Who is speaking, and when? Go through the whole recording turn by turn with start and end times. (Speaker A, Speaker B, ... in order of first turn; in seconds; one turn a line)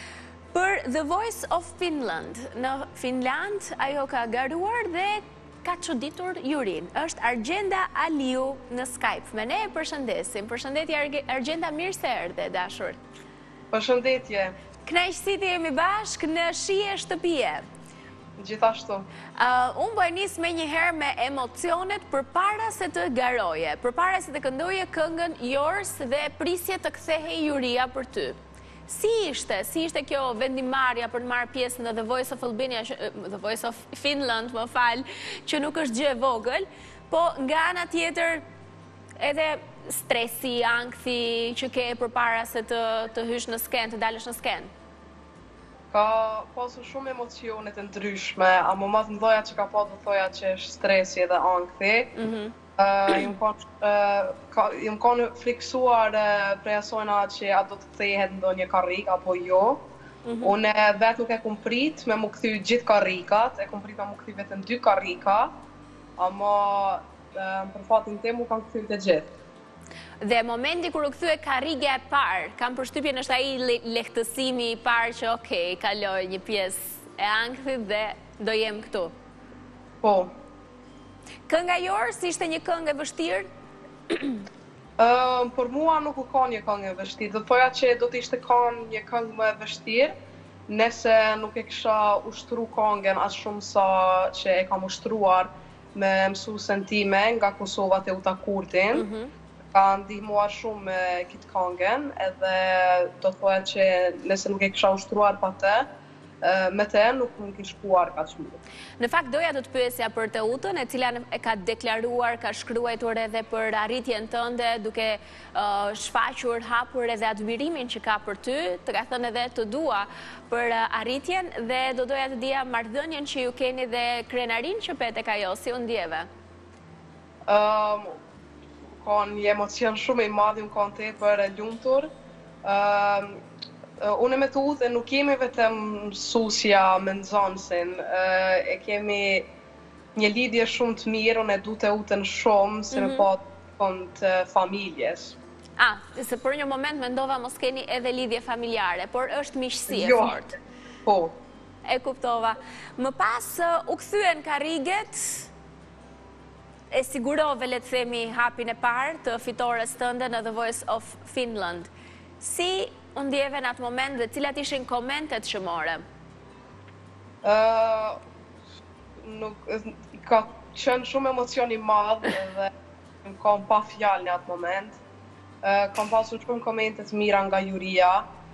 Speaker A: 0.5-13.0
Speaker B: 13.7-14.6
Speaker A: 14.8-17.6
Speaker B: 18.4-19.1
Speaker A: 19.4-38.4
Speaker A: 39.2-44.7
Speaker B: 45.9-52.1
Speaker A: 52.1-52.5
Speaker B: 52.8-59.8
Speaker A: 60.2-60.5
Speaker B: 60.4-65.5
Speaker B: 66.2-69.3
Speaker A: 70.2-79.1
Speaker B: 80.0-80.3
Speaker A: 81.5-83.5
Speaker A: 84.1-84.4
Speaker B: 85.0-90.1
Speaker B: 90.7-99.0
Speaker A: 98.9-99.3
Speaker B: 99.7-105.9
Speaker B: 106.4-108.6
Speaker A: 109.0-126.3
Speaker B: 127.5-128.2
Speaker B: 129.0-132.1
Speaker B: 132.6-133.4
Speaker B: 134.0-139.5
Speaker B: 140.2-145.3
Speaker A: 142.9-143.3
Speaker A: 145.8-150.6
Speaker B: 149.9-150.4
Speaker B: 151.0-151.3
Speaker A: 151.8-155.5
Speaker A: 156.9-166.0
Speaker B: 167.4-168.2
Speaker B: 169.2-172.7
Speaker B: 173.2-175.0
Speaker B: 175.6-178.3